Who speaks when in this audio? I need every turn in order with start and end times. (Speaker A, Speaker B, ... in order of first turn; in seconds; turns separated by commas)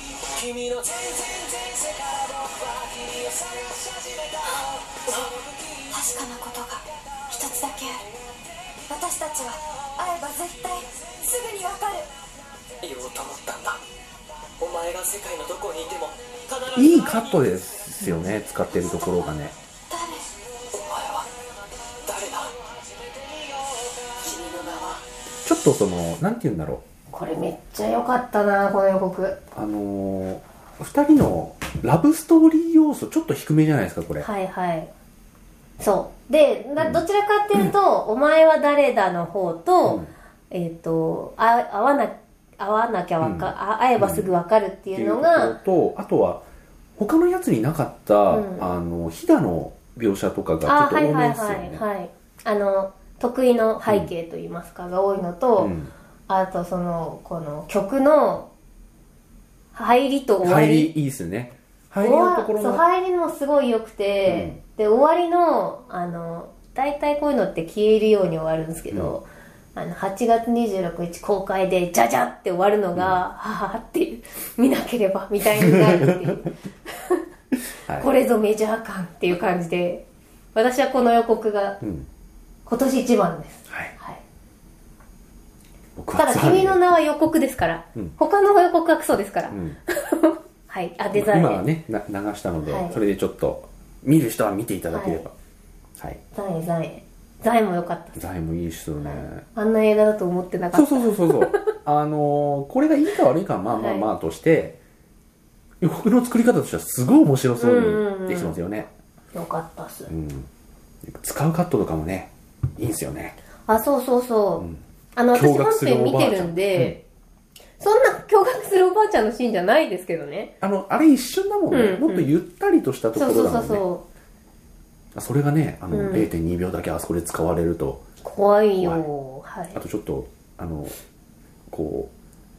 Speaker A: 0.3-3.7, Speaker B: 5.9-8.0, Speaker B: 8.9-12.1, Speaker A: 12.8-13.8, Speaker A: 14.6-17.4, Speaker C: 16.7-19.6, Speaker B: 19.9-20.3, Speaker A: 20.7-21.3, Speaker A: 22.0-22.5, Speaker A: 24.2-25.0, Speaker B: 24.3-24.6, Speaker C: 25.4-26.8, Speaker D: 27.1-29.4, Speaker C: 29.5-34.3, Speaker D: 34.2-34.9, Speaker D: 35.8-45.5, Speaker C: 39.9-40.1, Speaker C: 43.2-44.3, Speaker C: 44.9-46.4, Speaker C: 47.0-51.8, Speaker D: 48.3-48.7, Speaker D: 50.6-55.7, Speaker C: 55.6-55.9, Speaker D: 56.3-58.5, Speaker D: 59.7-60.9, Speaker C: 60.4-62.8, Speaker D: 62.0-77.2, Speaker C: 64.3-64.6, Speaker C: 68.9-69.2, Speaker C: 75.6-76.3, Speaker D: 78.0-81.8, Speaker C: 81.8-82.1, Speaker D: 82.7-84.2, Speaker C: 83.7-83.9, Speaker C: 86.0-86.8, Speaker D: 86.2-91.6, Speaker C: 89.5-89.8, Speaker C: 91.1-95.3, Speaker D: 92.7-93.0, Speaker D: 94.9-95.2, Speaker D: 96.3-98.2, Speaker C: 98.2-99.4, Speaker D: 99.0-101.7, Speaker C: 100.7-104.8, Speaker D: 103.7-104.1, Speaker C: 105.8-108.9, Speaker D: 107.6-108.6, Speaker D: 109.3-110.1, Speaker C: 110.1-110.5, Speaker C: 111.0-113.3, Speaker D: 113.7-117.0, Speaker C: 115.3-117.0, Speaker D: 117.8-120.5, Speaker C: 120.6-123.8, Speaker D: 121.7-122.3, Speaker D: 123.2-124.0, Speaker C: 125.1-128.0, Speaker D: 125.9-126.3, Speaker D: 128.2-129.8, Speaker C: 129.7-130.9, Speaker C: 131.7-132.1